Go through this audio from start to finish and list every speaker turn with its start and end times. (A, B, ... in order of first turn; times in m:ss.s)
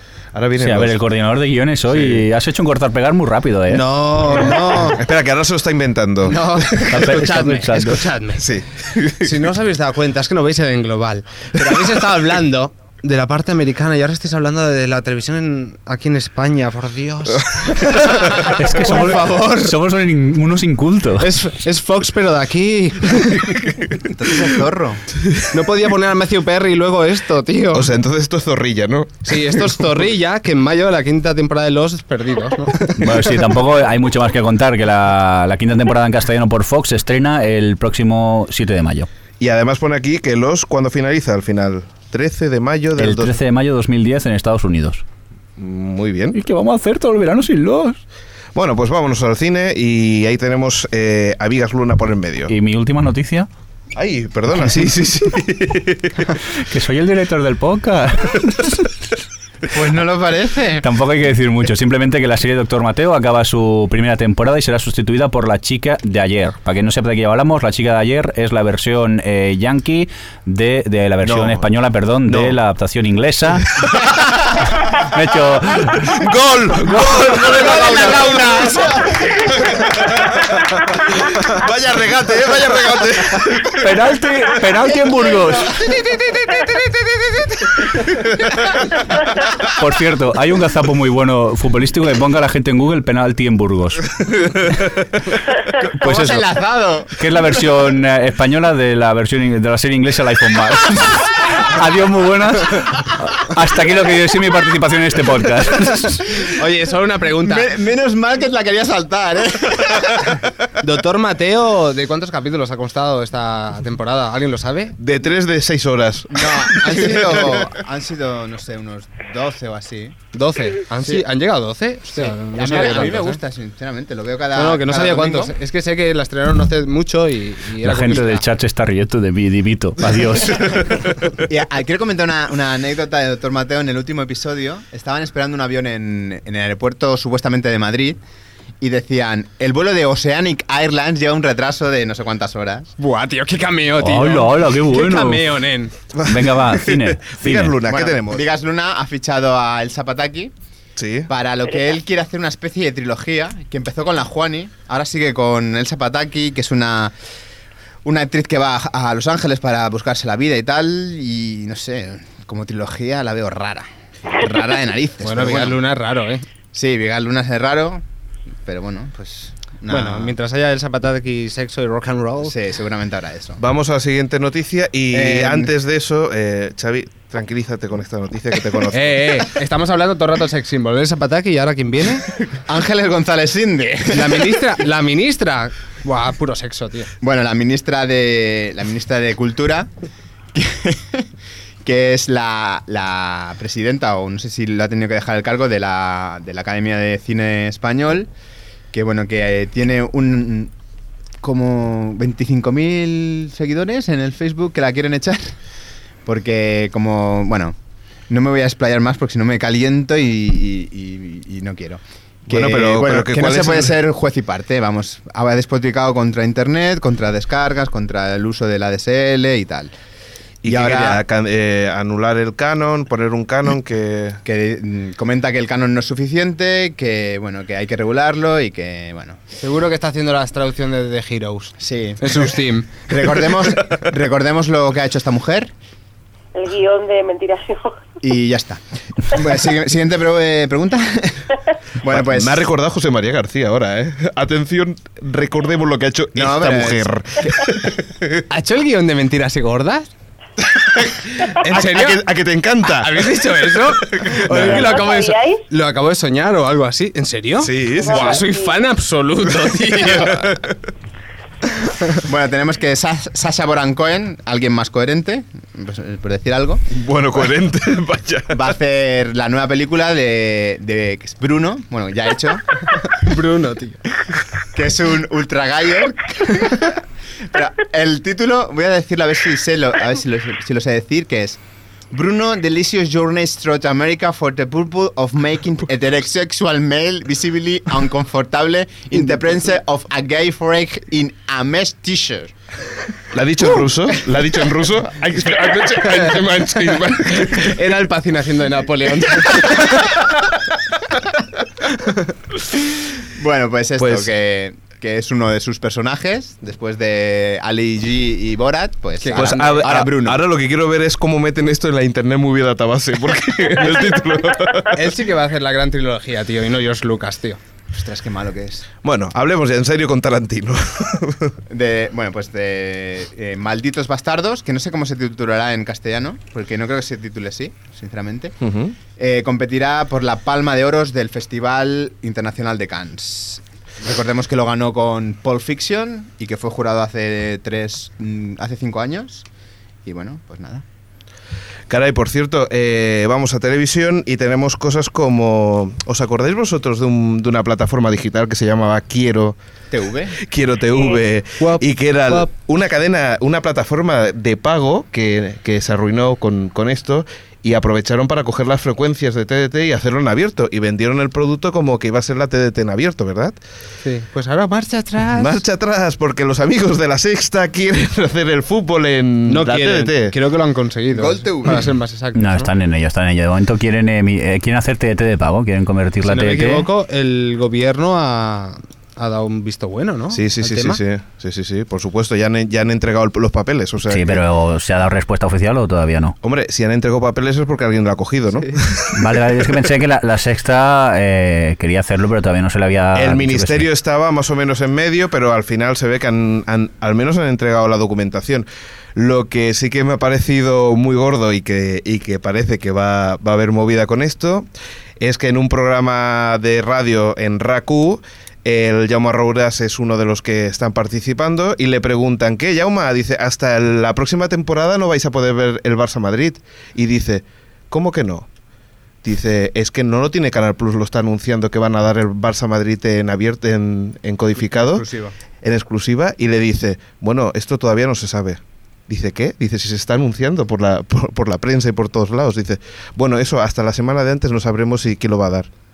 0:00.3-0:01.0 A
0:00.6-0:03.8 B
0:01.9-0:02.2 A
0:03.7-0:05.0 C
0:04.9-0:06.9 A
0:06.2-0:08.5 C
0:06.9-0:08.0 B
0:08.4-0:09.4 A
0:09.2-0:19.8 C
0:18.4-0:21.3 B
0:21.2-0:23.6 C
0:24.0-0:25.0 D
0:25.2-0:25.4 A
0:25.5-0:27.9 C
0:27.7-0:29.8 A
0:29.2-0:33.3 C
0:33.0-0:39.1 B
0:39.4-0:43.4 A
0:43.0-0:45.0 B
0:45.6-0:46.4 A
0:46.3-0:48.0 B
0:48.5-0:52.5 A
0:52.5-0:53.5 B
0:53.9-0:56.3 A
0:56.6-0:58.9 B
0:59.7-1:00.9 D
1:00.8-1:13.7 B
1:11.2-1:11.6 A
1:12.2-1:12.6 A
1:13.7-1:14.1 A
1:14.9-1:16.2 B
1:16.0-1:23.9 A
1:16.8-1:18.2 B
1:17.7-1:19.2 D
1:23.7-1:25.8 B
1:26.1-1:26.7 D
1:29.6-1:34.1 B
1:35.7-1:37.1 D
1:36.0-1:36.5 B
1:37.1-1:46.2 B
1:46.4-1:47.7 C
1:47.4-1:50.4 D
1:50.8-1:55.0 C
1:55.0-1:57.6 A
1:56.3-2:00.2 D
2:00.3-2:03.4 C
2:02.2-2:05.5 D
2:04.5-2:08.4 C
2:07.8-2:10.9 B
2:11.4-2:18.2 D
2:18.8-2:22.9 D
2:23.0-2:25.9 C
2:24.0-2:25.4 B
2:26.1-2:28.4 A
2:26.2-2:27.7 B
2:27.8-2:30.5 D
2:31.0-2:31.3 A
2:31.3-2:37.1 D
2:38.0-2:45.8 D
2:45.2-2:46.4 C
2:46.7-2:48.0 D
2:48.6-2:50.3 D
2:49.9-2:52.5 C
2:52.4-2:53.6 D
2:53.6-2:59.4 A
2:55.1-2:55.7 D
2:58.9-3:02.3 C
3:02.6-3:04.5 D
3:04.1-3:07.1 C
3:07.2-3:09.9 D
3:10.5-3:11.3 D
3:11.8-3:18.3 D
3:18.9-3:20.7 D
3:21.4-3:25.5 D
3:26.2-3:27.8 D
3:28.3-3:39.9 D
3:32.5-3:34.0 A
3:40.6-3:44.4 A
3:40.6-3:41.2 D
3:44.4-3:49.4 D
3:49.6-3:53.0 C
3:51.8-3:52.5 D
3:53.1-3:55.7 D
3:56.5-3:58.1 E
3:58.2-4:02.6 D
4:02.0-4:08.4 A
4:06.3-4:07.6 D
4:08.5-4:10.1 C
4:10.6-4:15.0 A
4:11.4-4:12.3 C
4:12.8-4:20.5 C
4:14.5-4:15.6 E
4:17.6-4:18.4 A
4:18.0-4:18.8 E
4:19.6-4:20.8 A
4:22.2-4:26.8 D
4:26.9-4:28.7 A
4:28.5-4:32.8 D
4:33.1-4:34.0 C
4:34.7-4:37.0 D
4:37.5-4:41.6 D
4:42.1-4:52.5 D
4:53.3-4:57.8 A
4:56.0-4:56.4 C
4:57.4-5:00.3 C
5:03.4-5:10.4 D
5:04.0-5:04.3 A
5:09.2-5:09.9 C
5:09.3-5:15.0 A
5:14.9-5:17.6 C
5:17.9-5:18.9 D
5:19.0-5:21.6 A
5:21.7-5:28.6 D
5:28.6-5:28.9 A
5:29.2-5:39.4 D
5:40.0-5:40.8 D
5:41.9-5:49.6 A
5:49.9-5:50.4 D
5:50.4-6:03.6 A
5:51.6-5:52.5 C
6:04.0-6:05.6 C
6:05.3-6:10.3 A
6:09.5-6:12.7 C
6:11.1-6:11.9 D
6:12.3-6:16.9 B
6:16.2-6:21.0 C
6:20.3-6:24.4 A
6:24.1-6:26.4 B
6:26.4-6:29.2 A
6:29.1-6:33.9 B
6:33.1-6:44.7 A
6:45.2-6:58.5 A
6:59.2-7:05.1 A
7:04.8-7:05.3 D
7:05.6-7:15.7 A